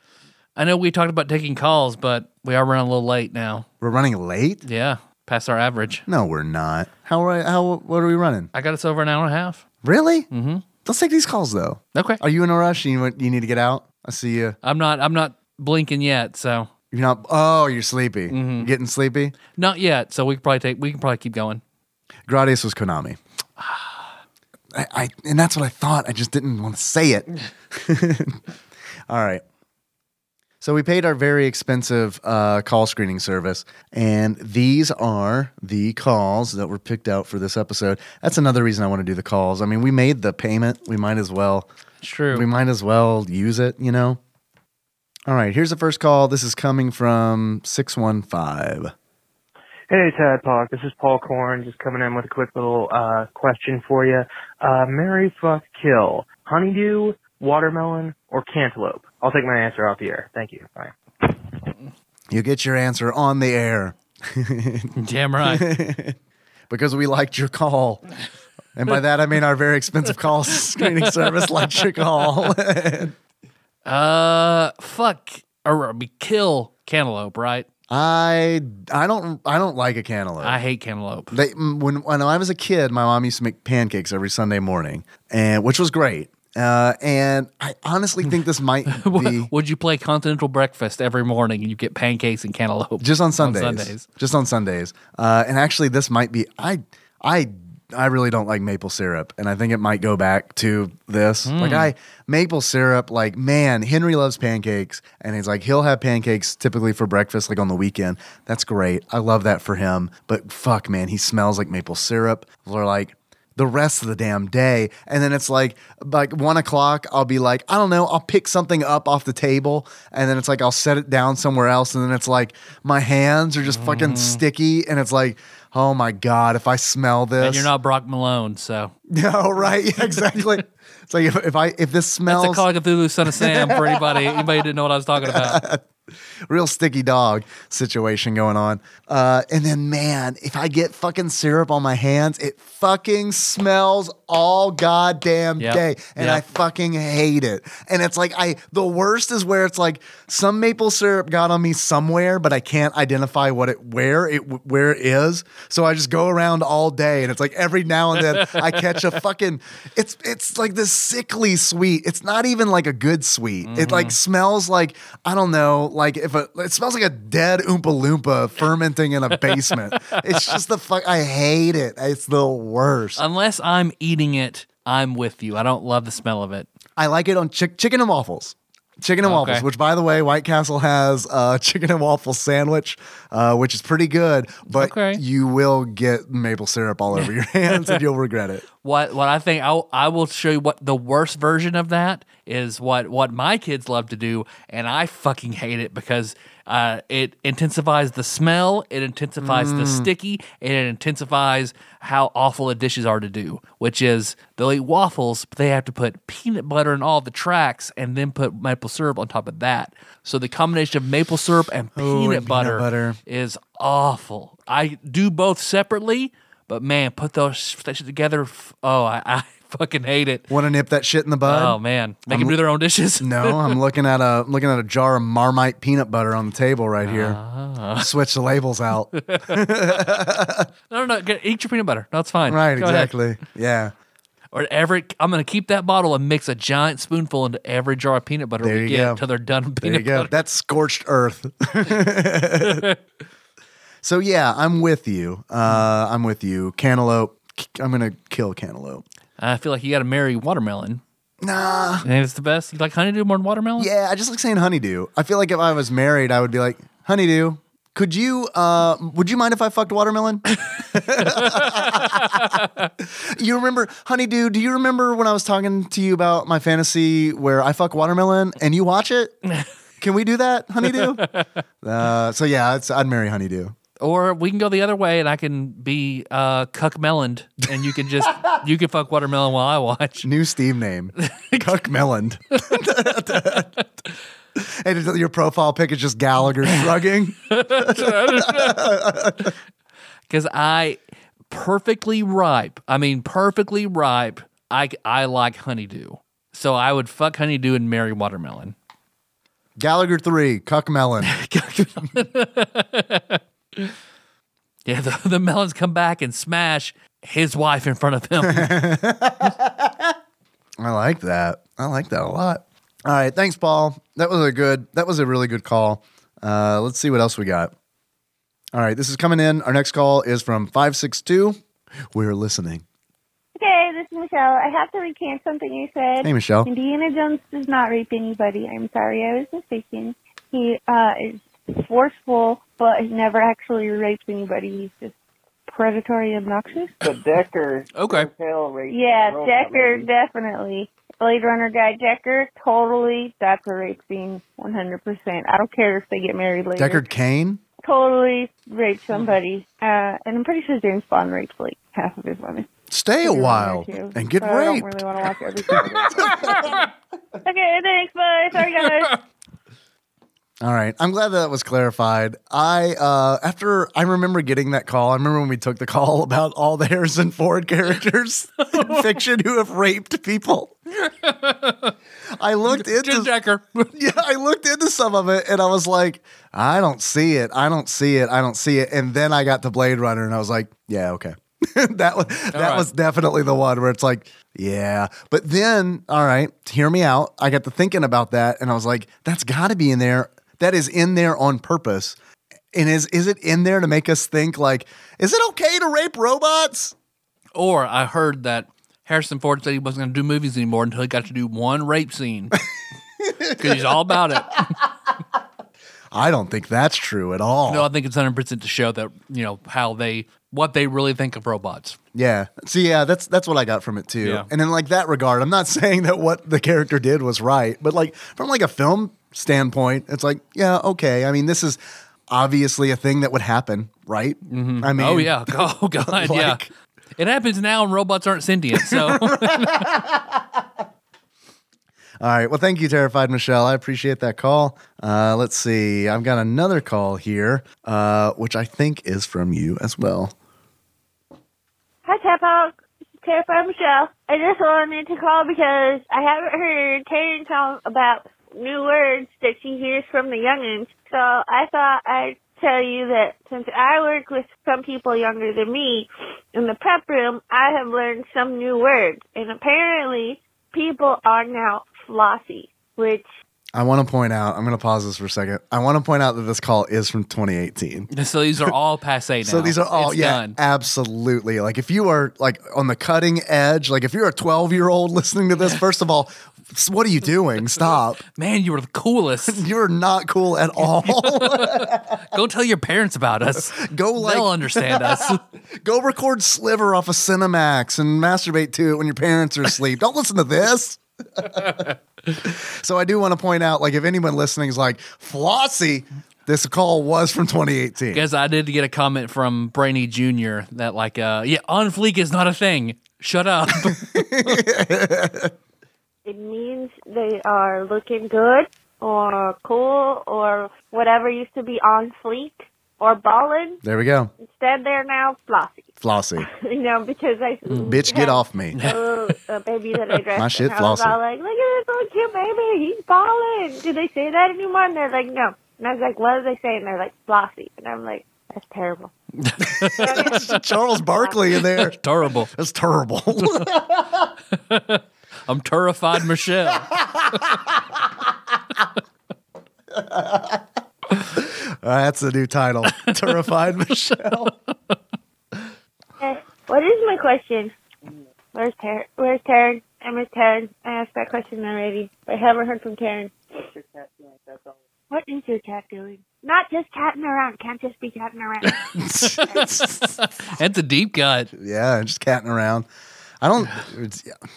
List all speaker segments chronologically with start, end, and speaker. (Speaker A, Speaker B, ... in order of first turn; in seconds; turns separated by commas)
Speaker A: 0.6-3.7, Speaker B: 3.8-4.6, Speaker A: 4.6-6.0, Speaker B: 6.1-8.5, Speaker A: 8.5-9.6, Speaker B: 9.8-10.3, Speaker A: 10.3-10.7, Speaker B: 10.8-14.6, Speaker A: 11.9-12.2, Speaker A: 14.6-16.7, Speaker B: 16.9-19.4, Speaker A: 18.3-18.7, Speaker A: 19.6-21.6, Speaker B: 22.3-23.2, Speaker A: 23.6-24.1, Speaker B: 24.7-28.4, Speaker B: 29.1-29.4, Speaker B: 30.6-41.7, Speaker A: 42.0-42.5, Speaker B: 42.3-44.2, Speaker B: 45.3-48.9, Speaker C: 49.9-61.6, Speaker B: 62.3-66.2, Speaker A: 65.0-65.7, Speaker B: 66.7-68.0, Speaker B: 68.7-73.2, Speaker A: 70.8-71.1, Speaker A: 73.8-77.7, Speaker B: 77.9-80.6, Speaker A: 80.4-81.4, Speaker B: 81.3-89.5, Speaker A: 88.9-94.1, Speaker B: 93.0-127.7, Speaker A: 101.5-101.9, Speaker A: 123.7-124.4, Speaker A: 127.4-128.9, Speaker B: 129.1-132.7, Speaker A: 132.3-135.6, Speaker B: 133.3-134.4, Speaker B: 135.2-135.8, Speaker B: 136.5-173.2, Speaker A: 145.6-146.4, Speaker A: 163.6-164.2, Speaker A: 169.5-170.6, Speaker A: 173.2-176.7, Speaker B: 177.0-188.7, Speaker A: 179.2-179.7, Speaker A: 184.7-185.2, Speaker A: 187.2-188.0, Speaker A: 188.8-220.5, Speaker B: 199.4-200.1, Speaker B: 211.9-213.2, Speaker B: 220.5-222.6, Speaker A: 221.4-223.8, Speaker B: 223.2-227.4, Speaker A: 227.0-228.1, Speaker B: 228.0-230.7, Speaker A: 229.1-230.2, Speaker A: 230.9-233.1, Speaker B: 232.5-233.9, Speaker A: 234.5-240.3, Speaker B: 238.6-239.2, Speaker B: 239.8-242.8, Speaker A: 242.6-243.0, Speaker B: 244.0-249.0, Speaker A: 249.4-251.0, Speaker B: 251.4-252.1, Speaker A: 252.0-253.9, Speaker B: 253.8-269.4, Speaker A: 261.2-262.9, Speaker B: 270.0-271.2, Speaker A: 270.9-271.4, Speaker B: 271.8-273.8, Speaker A: 274.0-280.3, Speaker B: 280.2-283.7, Speaker A: 281.2-281.8, Speaker A: 282.6-283.6, Speaker B: 284.6-289.5, Speaker A: 287.5-289.5, Speaker A: 290.3-291.0, Speaker A: 291.5-298.7, Speaker B: 299.8-301.3, Speaker A: 301.2-303.9, Speaker A: 304.9-308.9, Speaker B: 308.4-310.1, Speaker B: 310.8-317.7, Speaker B: 318.7-321.6, Speaker B: 322.1-322.8, Speaker D: 323.6-335.1, Speaker B: 326.2-326.7, Speaker D: 335.7-337.0, Speaker E: 337.0-340.1, Speaker A: 337.9-338.3, Speaker D: 338.9-347.0, Speaker B: 346.8-347.6, Speaker D: 347.8-352.7, Speaker B: 352.9-354.9, Speaker D: 353.2-356.9, Speaker B: 356.1-356.6, Speaker A: 356.2-356.7, Speaker D: 357.4-359.2, Speaker B: 360.6-370.7, Speaker A: 368.7-369.0, Speaker A: 370.9-371.9, Speaker B: 372.3-373.3, Speaker A: 372.7-373.9, Speaker B: 373.9-392.2, Speaker A: 382.5-382.9, Speaker B: 392.7-396.9, Speaker A: 397.5-402.6, Speaker B: 403.2-404.0, Speaker A: 403.4-404.8, Speaker B: 406.1-407.9, Speaker A: 407.7-412.0, Speaker B: 412.1-426.7, Speaker A: 414.2-414.5, Speaker A: 424.5-426.6, Speaker A: 427.2-429.9, Speaker B: 428.7-430.6, Speaker B: 432.2-440.3, Speaker D: 442.0-463.2, Speaker B: 463.7-468.1, Speaker A: 468.1-470.6, Speaker B: 469.4-478.2, Speaker A: 478.3-479.6, Speaker B: 479.4-482.3, Speaker A: 480.8-485.4, Speaker B: 483.6-498.2, Speaker A: 498.1-504.6, Speaker B: 503.7-505.5, Speaker D: 506.2-513.8, Speaker B: 513.8-514.3, Speaker D: 514.4-529.1, Speaker B: 516.0-516.5, Speaker A: 517.7-518.0, Speaker B: 517.9-518.8, Speaker A: 518.7-519.0, Speaker B: 520.3-521.2, Speaker A: 529.4-530.5, Speaker B: 529.7-534.3, Speaker D: 529.9-531.4, Speaker A: 531.7-532.5, Speaker A: 534.5-536.9, Speaker B: 536.7-537.8, Speaker B: 539.9-540.6, Speaker B: 541.3-544.5, Speaker A: 542.9-543.4, Speaker A: 544.2-544.5, Speaker D: 546.2-547.7, Speaker D: 548.5-553.3, Speaker E: 553.6-554.8, Speaker D: 555.1-559.8, Speaker A: 558.6-561.5, Speaker B: 558.9-560.1, Speaker B: 561.5-562.9, Speaker B: 563.4-564.4